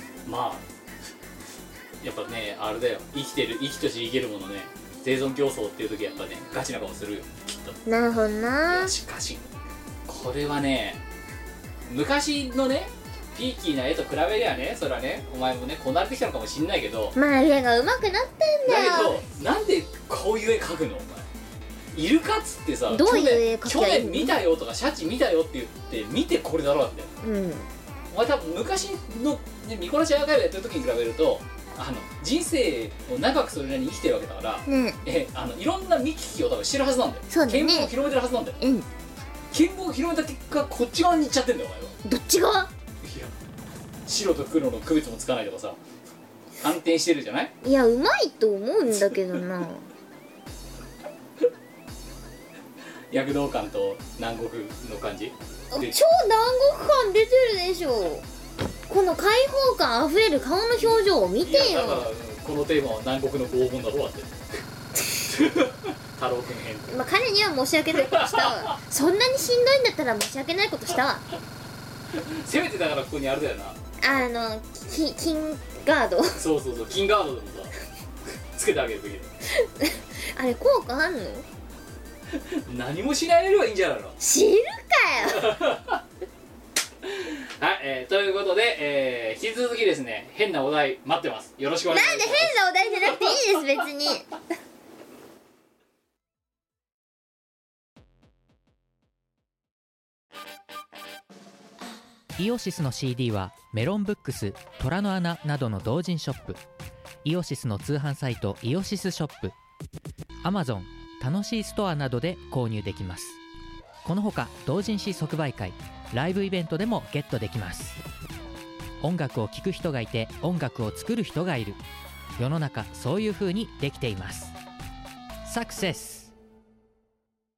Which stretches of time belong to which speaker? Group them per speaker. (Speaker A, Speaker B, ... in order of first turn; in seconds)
Speaker A: 0.2-0.6, 2.0-7.8, 8.7-9.5, 10.1-11.0, 11.9-17.1, 18.7-21.2, 21.9-27.1, 28.1-38.6, 39.5-41.9, 43.0-43.3, 44.0-45.8, 46.6-47.5, 53.1-56.0, 60.8-64.3, 65.3-66.9, 67.9-68.7, 72.1-73.8, 76.4-77.7, 78.5-79.3, 82.5-84.2, 85.2-86.0, 87.0-93.5
Speaker B: 7.8-8.9, 17.1-19.2, 22.9-24.4, 27.2-27.7, 34.7-35.0, 37.3-37.9, 38.6-38.9, 42.0-42.7, 47.6-49.9, 55.7-58.2, 58.9-62.1, 66.9-71.2, 74.0-76.4, 79.5-81.5, 84.2-85.5, 91.9-94.3
Speaker C: 102.4-106.6, 107.2-109.5, 110.4-113.4, 114.0-118.0, 119.0-121.8, 122.4-124.5, 125.4-126.3